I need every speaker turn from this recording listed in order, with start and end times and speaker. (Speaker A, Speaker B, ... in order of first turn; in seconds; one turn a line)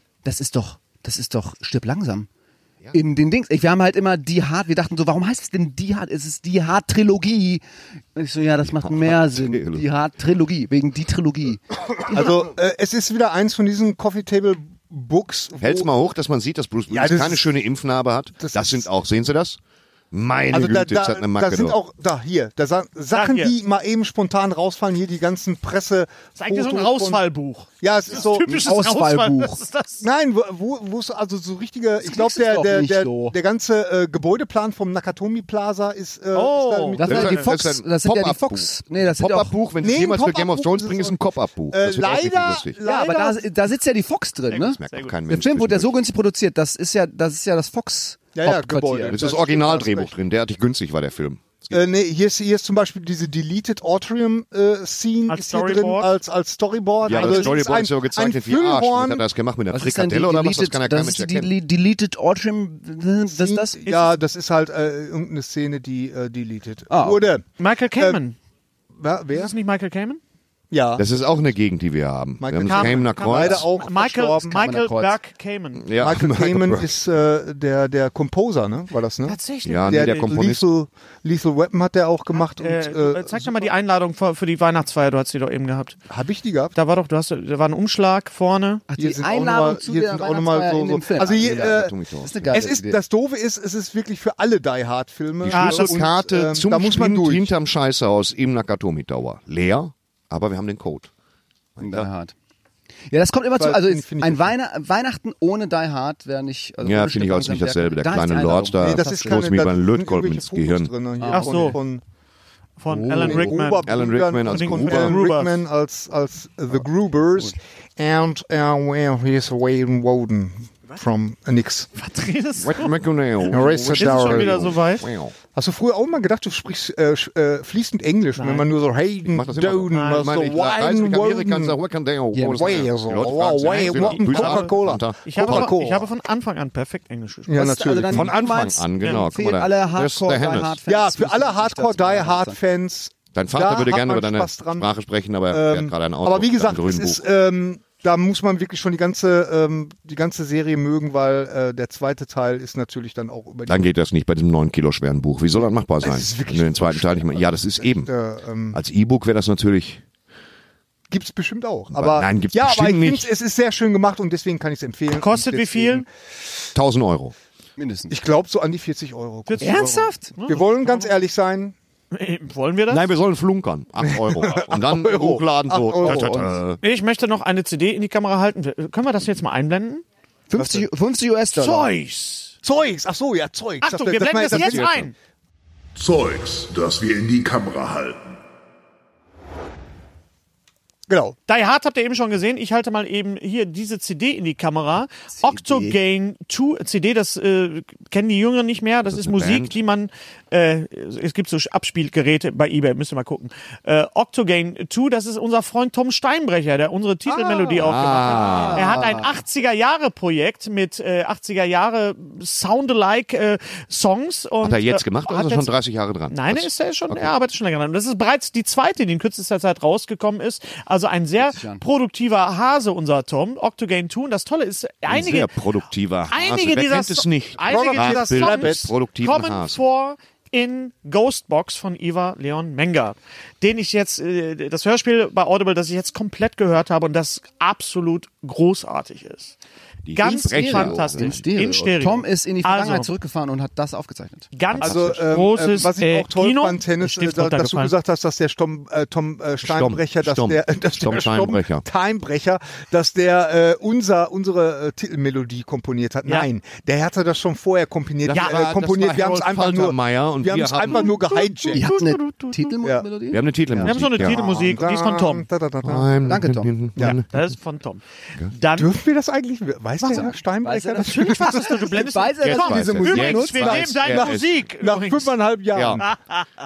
Speaker A: 0.2-2.3
Speaker A: 2.9-7.6
Speaker A: 8.1-11.6
Speaker B: 8.7-9.8
Speaker C: 12.1-15.9
Speaker B: 15.6-19.6
Speaker C: 16.9-17.5
Speaker C: 18.4-18.9
Speaker B: 20.1-21.8
Speaker C: 20.5-27.2
Speaker D: 23.1-23.5
Speaker D: 26.4-30.1
Speaker C: 27.8-28.6
Speaker A: 28.5-29.6
Speaker C: 30.0-37.4
Speaker A: 32.0-33.3
Speaker D: 36.3-37.4
Speaker A: 36.9-39.5
Speaker B: 37.0-42.8
Speaker C: 39.8-41.2
Speaker C: 41.7-43.5
Speaker A: 42.8-49.2
Speaker D: 42.9-43.2
Speaker D: 44.5-45.1
Speaker B: 44.8-45.9
Speaker C: 48.3-50.1
Speaker B: 49.1-51.8
Speaker C: 51.7-59.2
Speaker D: 55.3-56.1
Speaker D: 57.0-57.6
Speaker B: 57.0-61.5
Speaker A: 59.7-63.8
Speaker C: 63.3-68.2
Speaker A: 66.9-67.2
Speaker D: 67.6-68.3
Speaker C: 69.0-69.5
Speaker D: 69.3-70.2
Speaker C: 70.7-71.0
Speaker B: 71.0-73.7
Speaker C: 72.4-74.6
Speaker D: 72.6-75.9
Speaker A: 74.5-75.2
Speaker B: 75.8-76.9
Speaker C: 76.0-83.7
Speaker D: 79.2-80.3
Speaker B: 79.6-80.6
Speaker D: 82.5-86.0
Speaker C: 86.1-86.7
Speaker D: 86.7-88.8
Speaker A: 88.9-93.0
Speaker C: 89.0-91.9
Speaker B: 91.2-92.5
Speaker C: 92.5-97.5
Speaker B: 95.4-101.1
Speaker D: 95.5-96.0
Speaker B: 101.8-102.1
Speaker A: 101.8-102.3
Speaker A: 103.1-109.5
Speaker C: 103.6-104.5
Speaker B: 106.8-110.9
Speaker C: 108.8-112.0
Speaker A: 111.2-111.8
Speaker D: 111.3-111.8
Speaker D: 112.8-115.6
Speaker A: 112.9-113.5
Speaker C: 113.2-121.9
Speaker B: 113.8-115.2
Speaker D: 121.9-123.0
Speaker B: 122.6-125.3
Speaker C: 123.5-124.7
Speaker D: 123.5-125.1
Speaker C: 125.5-131.8
Speaker D: 128.4-128.7
Speaker B: 129.3-135.7
Speaker D: 129.9-130.3
Speaker A: 132.3-132.8
Speaker C: 132.6-136.1
Speaker D: 133.6-137.7
Speaker C: 137.5-138.3
Speaker A: 137.5-142.6
Speaker B: 138.1-140.8
Speaker C: 140.8-144.9
Speaker B: 143.3-147.2
Speaker C: 145.5-153.8
Speaker B: 153.7-158.1
Speaker C: 156.0-158.8
Speaker B: 158.7-160.0
Speaker C: 161.1-166.1
Speaker B: 161.9-163.2
Speaker D: 165.1-166.1
Speaker B: 166.7-167.3
Speaker A: 167.8-168.1
Speaker C: 168.1-171.7
Speaker D: 169.5-171.1
Speaker A: 169.6-170.3
Speaker D: 172.1-173.1
Speaker B: 172.9-176.8
Speaker C: 174.0-176.4
Speaker A: 176.0-176.5
Speaker D: 176.8-180.0
Speaker A: 180.5-181.9
Speaker C: 180.6-180.8
Speaker D: 181.5-182.5
Speaker C: 182.6-184.9
Speaker D: 183.8-185.1
Speaker B: 184.5-185.1
Speaker E: 185.9-188.3
Speaker C: 191.1-191.4
Speaker D: 191.5-215.7
Speaker A: 195.3-196.0
Speaker B: 199.1-199.8
Speaker C: 207.2-207.8
Speaker B: 207.7-209.0
Speaker C: 208.4-209.0
Speaker A: 208.7-209.2
Speaker B: 214.6-217.3
Speaker D: 216.3-225.5
Speaker A: 221.4-221.8
Speaker B: 225.1-229.8
Speaker D: 226.3-239.5
Speaker C: 227.7-228.9
Speaker B: 240.0-241.4
Speaker D: 240.1-243.1
Speaker A: 240.2-244.5
Speaker D: 244.5-247.9
Speaker B: 244.7-245.2
Speaker C: 244.8-261.9
Speaker B: 249.6-251.8
Speaker B: 258.2-261.1
Speaker D: 258.3-258.7
Speaker D: 260.9-262.7
Speaker A: 261.7-263.4
Speaker B: 263.3-264.4
Speaker C: 263.7-266.4
Speaker D: 263.8-265.4
Speaker B: 265.8-267.3
Speaker A: 266.3-266.7
Speaker D: 267.1-268.9
Speaker C: 268.8-271.9
Speaker D: 270.0-270.3
Speaker A: 270.1-273.9
Speaker D: 271.0-275.4
Speaker B: 272.4-274.5
Speaker C: 272.8-273.3
Speaker C: 273.8-276.1
Speaker B: 275.7-276.0
Speaker D: 276.0-276.4